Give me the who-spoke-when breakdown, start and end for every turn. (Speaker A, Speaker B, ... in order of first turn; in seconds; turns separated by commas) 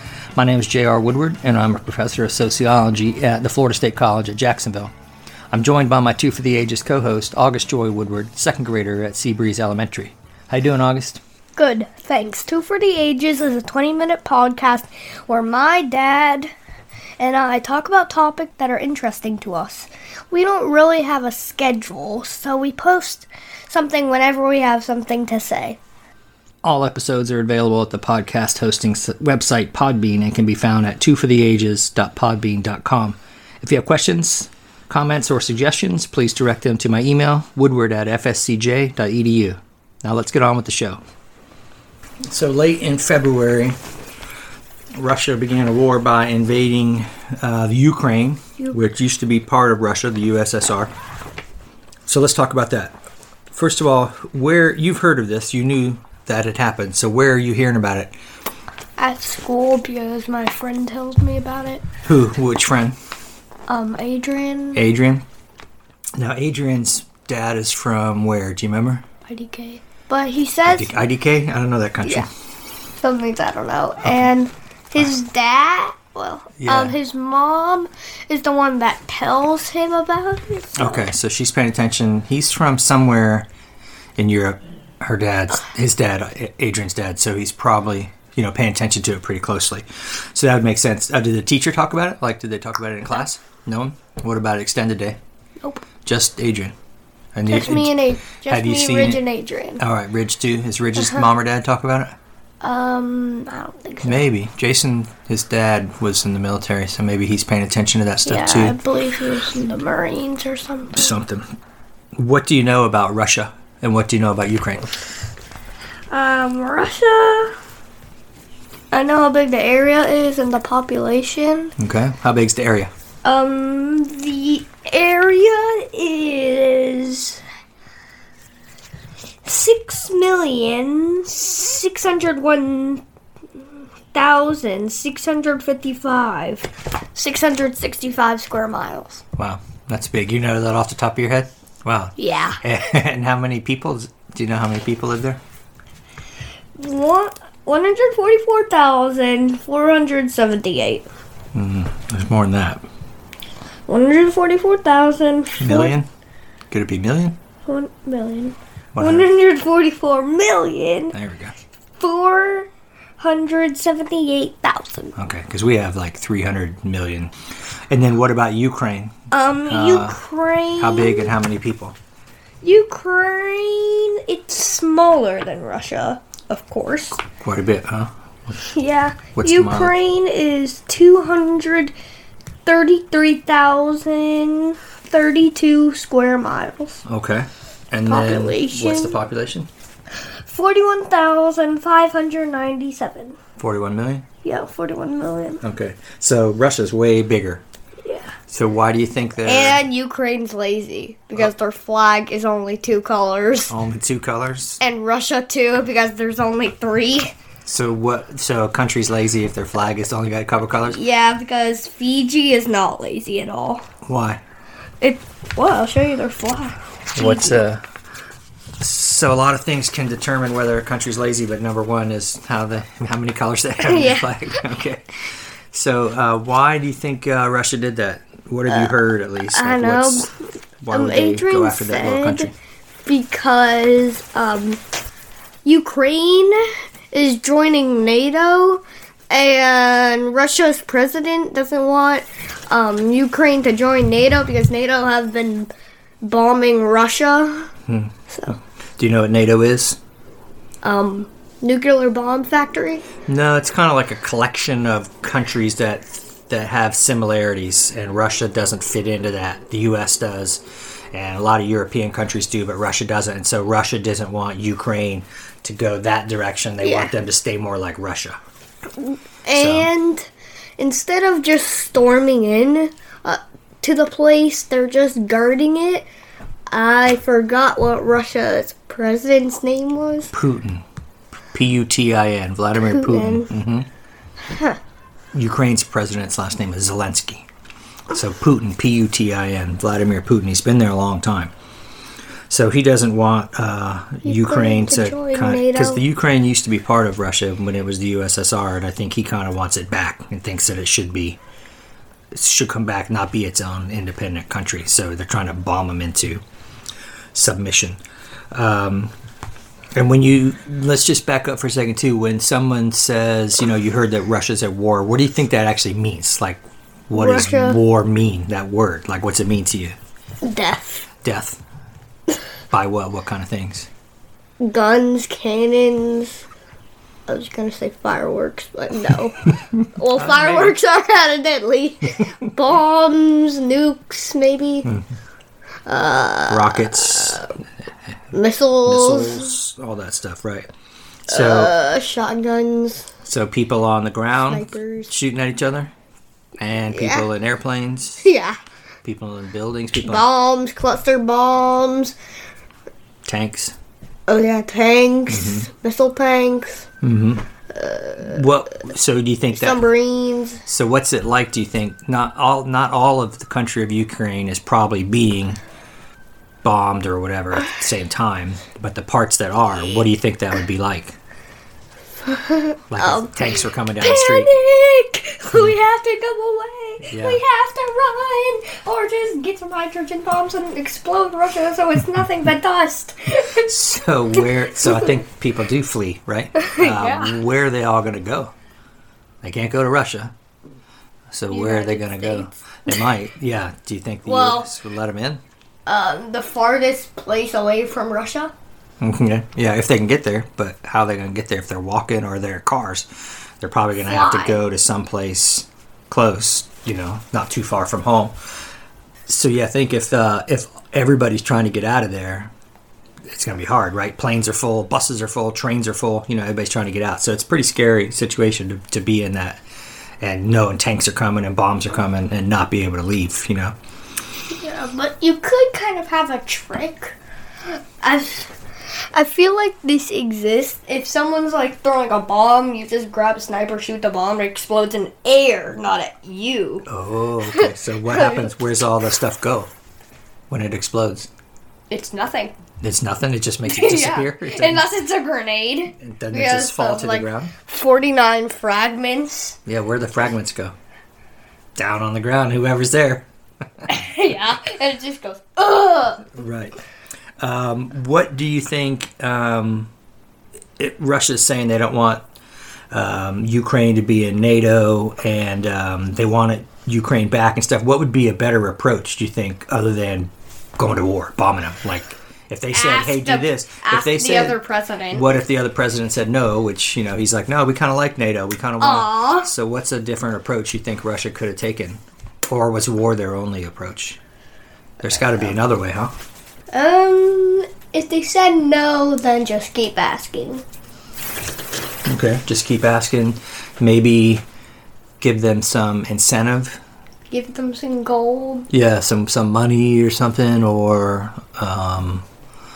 Speaker A: 0.3-4.9, Speaker A: 5.5-11.2, Speaker B: 11.6-16.5, Speaker B: 17.2-25.8, Speaker A: 26.6-41.0, Speaker A: 42.2-43.8, Speaker A: 44.9-50.9, Speaker A: 52.0-53.0, Speaker A: 53.5-58.1, Speaker B: 59.0-61.8, Speaker A: 62.0-63.0, Speaker B: 63.7-64.8, Speaker A: 64.7-65.2, Speaker A: 66.2-69.0, Speaker B: 69.2-70.9, Speaker A: 70.7-72.3, Speaker B: 73.0-81.1, Speaker A: 74.0-74.3, Speaker A: 76.6-77.0, Speaker A: 80.8-83.5, Speaker A: 84.2-95.2, Speaker A: 96.0-96.7, Speaker A: 97.3-99.2, Speaker B: 97.5-99.8, Speaker A: 99.8-102.2, Speaker B: 101.0-101.3, Speaker B: 102.6-104.2, Speaker A: 104.0-108.8, Speaker B: 108.2-111.1, Speaker A: 110.9-111.5, Speaker A: 112.1-114.9, Speaker B: 116.1-117.5, Speaker B: 118.9-121.7, Speaker A: 121.8-122.9, Speaker B: 123.2-127.4, Speaker B: 129.4-133.0, Speaker B: 134.1-139.2, Speaker A: 139.4-145.4, Speaker B: 142.2-142.6, Speaker B: 146.8-151.1, Speaker A: 151.5-152.8, Speaker B: 153.9-155.9, Speaker A: 155.6-156.1, Speaker A: 156.7-157.3, Speaker B: 157.7-161.1, Speaker A: 158.9-159.3, Speaker A: 161.1-161.6, Speaker B: 162.0-165.1, Speaker A: 165.2-167.3, Speaker A: 167.9-169.1, Speaker B: 169.3-171.3, Speaker A: 169.7-170.2, Speaker A: 170.8-171.9, Speaker B: 172.6-177.2, Speaker A: 177.2-178.1, Speaker B: 178.6-181.9, Speaker A: 179.3-179.9, Speaker B: 182.7-187.0, Speaker A: 187.0-189.7, Speaker B: 188.1-189.2, Speaker B: 190.4-193.3, Speaker A: 193.6-194.2, Speaker B: 194.4-195.6, Speaker A: 195.6-197.6, Speaker B: 198.0-198.3, Speaker A: 198.5-199.8, Speaker B: 199.4-203.7, Speaker A: 203.7-204.8, Speaker B: 204.8-207.3, Speaker A: 207.6-211.0, Speaker B: 210.8-213.8, Speaker A: 214.0-214.4, Speaker B: 215.0-217.7, Speaker A: 217.1-217.8, Speaker A: 218.8-225.2, Speaker B: 223.8-224.6, Speaker A: 225.7-230.3, Speaker B: 228.7-230.3, Speaker A: 230.8-232.5, Speaker B: 230.9-232.5, Speaker B: 233.1-234.8, Speaker B: 235.6-245.7, Speaker B: 246.2-247.7, Speaker A: 247.9-248.1, Speaker B: 248.3-248.6, Speaker A: 249.0-250.0, Speaker B: 250.8-253.0, Speaker A: 253.2-268.4, Speaker B: 266.8-267.1, Speaker B: 269.0-276.1, Speaker A: 269.6-269.9, Speaker B: 276.7-280.3, Speaker A: 280.3-280.8, Speaker A: 281.5-283.9, Speaker B: 282.8-283.5, Speaker B: 284.5-284.8, Speaker A: 285.3-287.4, Speaker A: 288.1-291.5, Speaker A: 292.5-301.4, Speaker B: 294.2-296.0, Speaker A: 302.3-306.4, Speaker A: 307.3-308.0, Speaker A: 308.5-309.1, Speaker A: 309.9-320.0, Speaker B: 317.1-317.8, Speaker B: 320.4-321.1, Speaker A: 321.2-321.6, Speaker A: 322.7-323.9, Speaker B: 324.6-326.4, Speaker B: 327.3-334.9, Speaker A: 330.1-330.8, Speaker B: 335.9-337.5, Speaker A: 336.5-337.5, Speaker B: 338.3-339.6, Speaker A: 338.8-340.7, Speaker A: 341.3-341.7, Speaker B: 341.3-343.1, Speaker A: 343.2-345.9, Speaker B: 344.4-345.1, Speaker A: 346.6-348.2, Speaker B: 346.9-347.2, Speaker B: 348.2-348.6, Speaker A: 349.0-350.2, Speaker B: 349.9-352.1, Speaker A: 353.2-353.8, Speaker B: 354.3-356.9, Speaker A: 355.3-355.7, Speaker A: 357.0-357.4, Speaker B: 357.7-358.5, Speaker A: 358.2-359.8, Speaker B: 359.5-360.6, Speaker A: 360.6-365.6, Speaker A: 366.6-371.1, Speaker B: 372.3-383.6, Speaker A: 372.9-374.5, Speaker A: 377.0-377.4, Speaker A: 383.6-388.5, Speaker B: 384.8-385.1, Speaker B: 386.6-387.4, Speaker A: 389.4-390.3, Speaker A: 391.3-395.4, Speaker B: 391.5-393.0, Speaker B: 394.2-394.7, Speaker B: 395.9-398.5, Speaker A: 399.0-403.1, Speaker A: 403.6-408.3, Speaker B: 404.0-404.6, Speaker A: 409.3-412.5, Speaker A: 413.3-419.6, Speaker A: 420.2-423.7, Speaker B: 424.5-427.1, Speaker B: 428.0-428.5, Speaker B: 429.1-436.9, Speaker A: 436.9-439.7, Speaker B: 437.4-438.5, Speaker A: 440.5-441.3, Speaker B: 441.9-442.5, Speaker A: 442.8-444.9, Speaker B: 443.6-449.6, Speaker A: 446.0-447.5, Speaker A: 449.6-450.7, Speaker A: 451.8-453.2, Speaker B: 453.9-456.3, Speaker A: 456.3-456.8, Speaker A: 457.4-459.9, Speaker A: 460.8-462.2, Speaker A: 462.9-474.6, Speaker B: 472.7-475.3, Speaker A: 475.1-484.2, Speaker B: 478.8-479.5, Speaker A: 485.0-486.1, Speaker B: 486.7-490.6, Speaker A: 492.0-494.4, Speaker A: 495.2-496.8, Speaker B: 497.3-498.7, Speaker A: 498.7-502.2